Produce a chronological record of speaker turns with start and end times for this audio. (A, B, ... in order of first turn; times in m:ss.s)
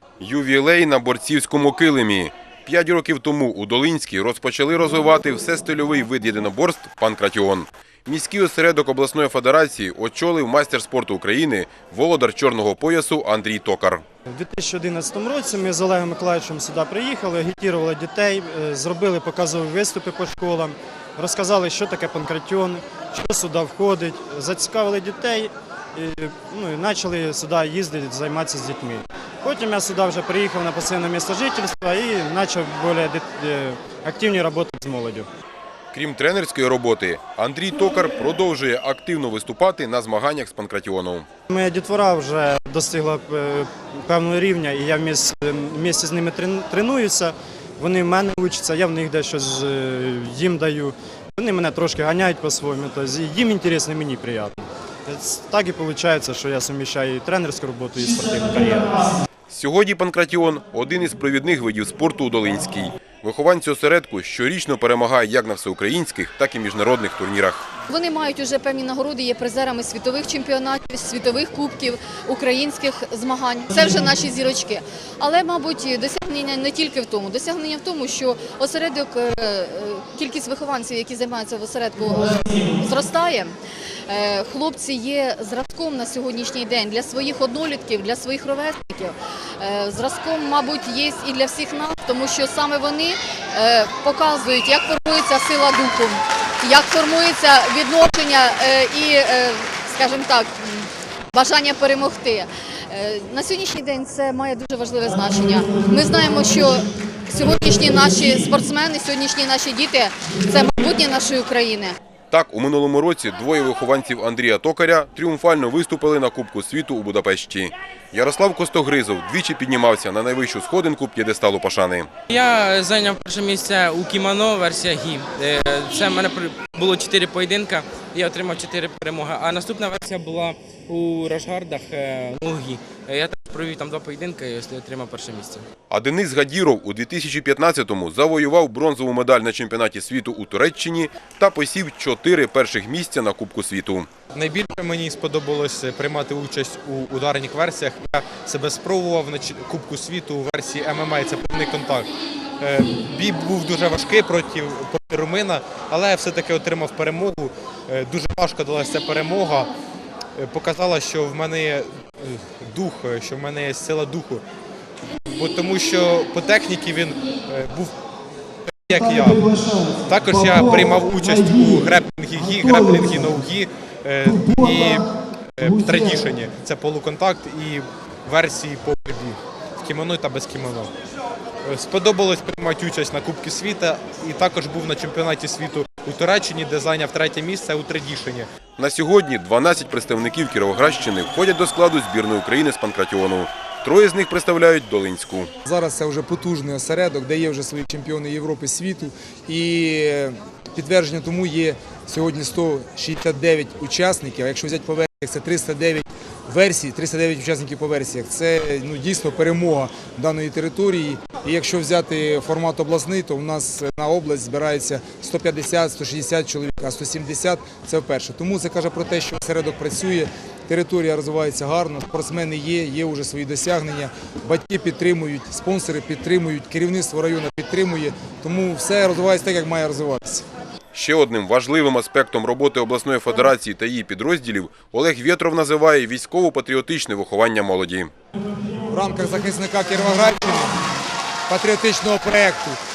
0:00.2-0:14.0 A
0:14.3-0:35.3 B
0:35.9-0:41.3 A
0:41.5-0:59.2 B
0:59.5-1:07.6 A
1:07.9-1:23.6 C
1:24.1-1:52.0 C
1:52.3-2:02.1 A
2:02.3-2:15.7 D
2:15.9-2:24.1 A
2:24.3-2:32.1 E
2:32.6-2:39.7 E
2:40.4-2:44.4 E
2:45.3-2:47.9 E
2:48.9-3:00.9 E
3:01.6-3:08.5 E
3:08.8-3:15.5 A
3:15.6-3:50.4 F
3:50.9-3:58.1 A
3:58.9-4:00.8 F
4:01.5-4:02.8 F